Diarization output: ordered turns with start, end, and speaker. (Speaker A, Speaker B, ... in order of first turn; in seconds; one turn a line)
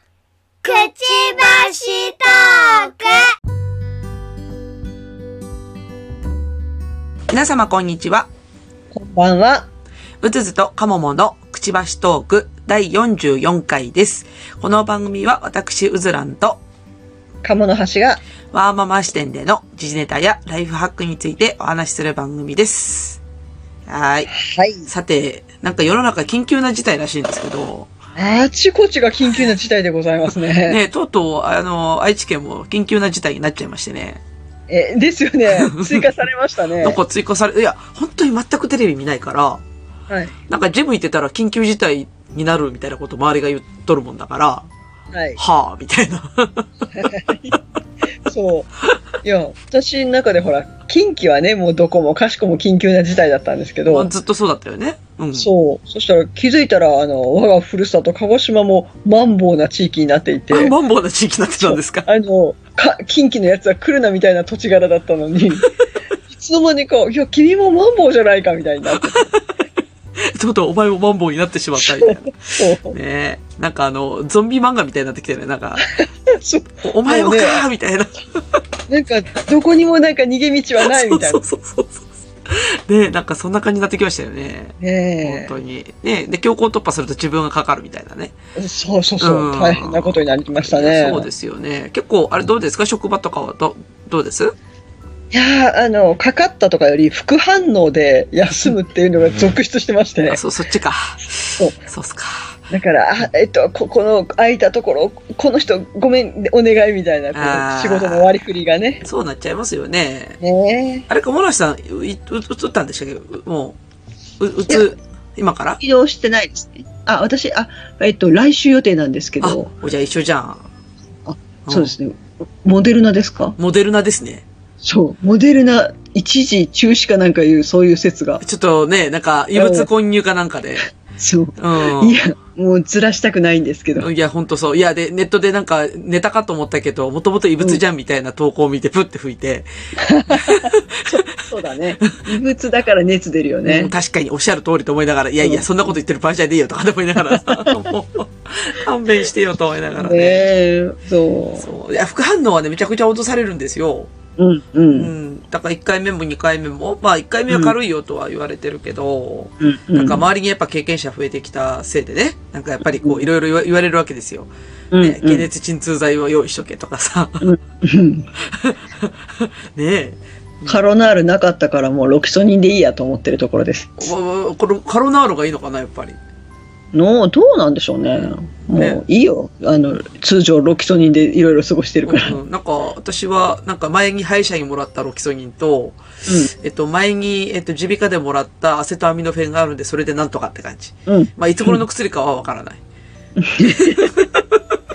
Speaker A: 0.6-3.3
Speaker B: 7.3-8.3
Speaker C: 8.9-9.7
Speaker B: 10.2-16.6
Speaker C: 17.4-18.2
Speaker B: 18.5-23.2
Speaker B: 23.9-24.3
Speaker C: 24.3-24.9
Speaker B: 24.9-27.9
Speaker C: 28.2-30.8
Speaker B: 30.5-34.2
Speaker C: 34.7-37.0
Speaker B: 35.5-36.1
Speaker B: 36.8-39.6
Speaker B: 40.5-44.7
Speaker C: 45.1-45.4
Speaker B: 45.4-47.6
Speaker C: 46.9-47.6
Speaker C: 48.2-48.7
Speaker C: 49.2-54.1
Speaker B: 53.9-55.5
Speaker C: 55.4-60.7
Speaker B: 60.5-62.1
Speaker C: 61.6-65.7
Speaker C: 66.3-69.3
Speaker B: 68.9-69.5
Speaker B: 70.2-75.8
Speaker C: 71.8-73.0
Speaker C: 75.8-77.7
Speaker B: 76.8-78.6
Speaker C: 78.9-81.4
Speaker B: 80.8-88.3
Speaker C: 84.8-85.5
Speaker C: 88.6-91.3
Speaker B: 89.2-94.5
Speaker C: 95.3-100.4
Speaker B: 100.3-102.6
Speaker C: 102.7-109.0
Speaker B: 107.3-108.3
Speaker B: 109.0-110.4
Speaker C: 110.4-111.1
Speaker B: 111.1-113.8
Speaker B: 114.4-115.8
Speaker C: 115.8-119.7
Speaker B: 119.4-120.7
Speaker C: 121.3-123.6
Speaker B: 121.7-122.0
Speaker B: 123.6-124.5
Speaker C: 124.8-128.4
Speaker B: 128.4-130.9
Speaker C: 129.6-129.9
Speaker C: 131.2-134.1
Speaker B: 131.6-132.2
Speaker B: 134.0-139.7
Speaker C: 140.0-143.9
Speaker B: 140.3-141.1
Speaker B: 143.7-150.5
Speaker C: 147.3-147.8
Speaker C: 150.0-151.7
Speaker B: 151.6-154.1
Speaker C: 154.4-155.1
Speaker B: 154.9-164.5
Speaker C: 157.5-157.8
Speaker C: 159.6-160.2
Speaker C: 163.0-163.3
Speaker C: 164.9-165.5
Speaker B: 165.0-167.5
Speaker C: 167.4-168.3
Speaker B: 168.4-170.8
Speaker C: 170.7-174.1
Speaker B: 174.0-176.2
Speaker C: 176.9-182.4
Speaker B: 182.1-186.0
Speaker B: 186.5-192.8
Speaker C: 191.1-191.8
Speaker C: 193.4-194.1
Speaker B: 193.7-194.8